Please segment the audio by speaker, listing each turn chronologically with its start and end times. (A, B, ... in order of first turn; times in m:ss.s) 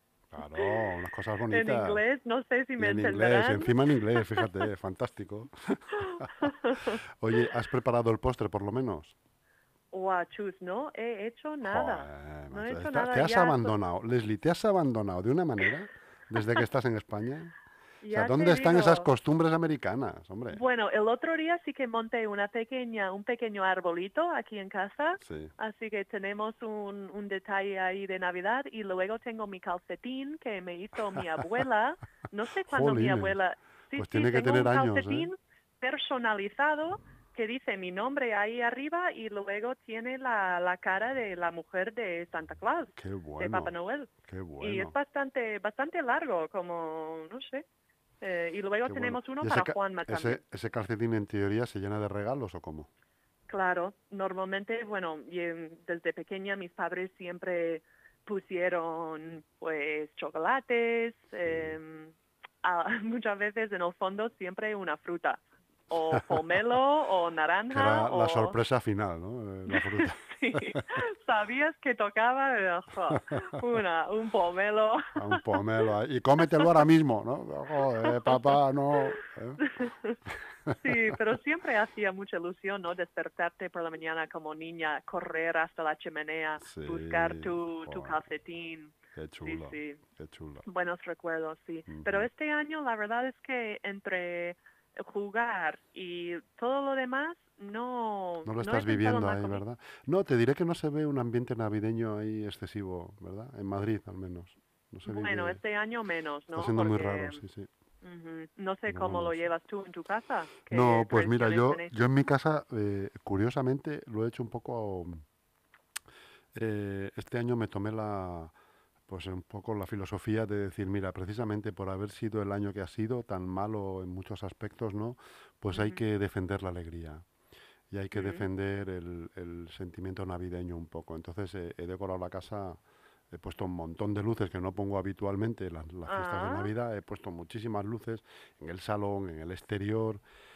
0:00.3-0:02.0 A
0:01.5-0:04.4 B
0:02.8-0:09.1 A
0:06.4-0:07.0 B
0:09.9-0:13.8 B
0:11.6-0:17.6 A
0:18.0-0:19.1 B
0:18.1-0:20.6 A
0:20.5-0:47.6 B
0:25.2-0:25.5 A
0:32.7-0:33.4 A
0:34.0-0:35.3 A
0:43.0-0:43.7 A
0:44.2-0:44.9 A
0:48.2-0:50.4 B
0:48.8-0:52.9 A
0:53.5-1:08.5 B
1:01.4-1:01.8 A
1:07.7-1:10.8 A
1:09.7-1:15.6 B
1:15.2-1:19.7 A
1:18.2-1:18.6 B
1:19.7-1:20.2 B
1:20.7-1:21.1 A
1:20.8-1:30.0 B
1:26.6-1:28.2 A
1:29.1-1:30.6 A
1:30.6-1:39.6 B
1:31.9-1:32.3 A
1:38.4-1:45.6 A
1:45.0-1:47.4 B
1:46.5-1:47.7 A
1:48.0-1:51.9 B
1:48.9-1:49.4 A
1:50.7-1:55.2 A
1:56.5-1:58.5 A
1:59.1-2:07.2 A
2:05.7-2:06.0 B
2:07.9-2:12.8 A
2:08.1-2:08.5 B
2:13.3-2:20.2 A
2:16.1-2:16.7 B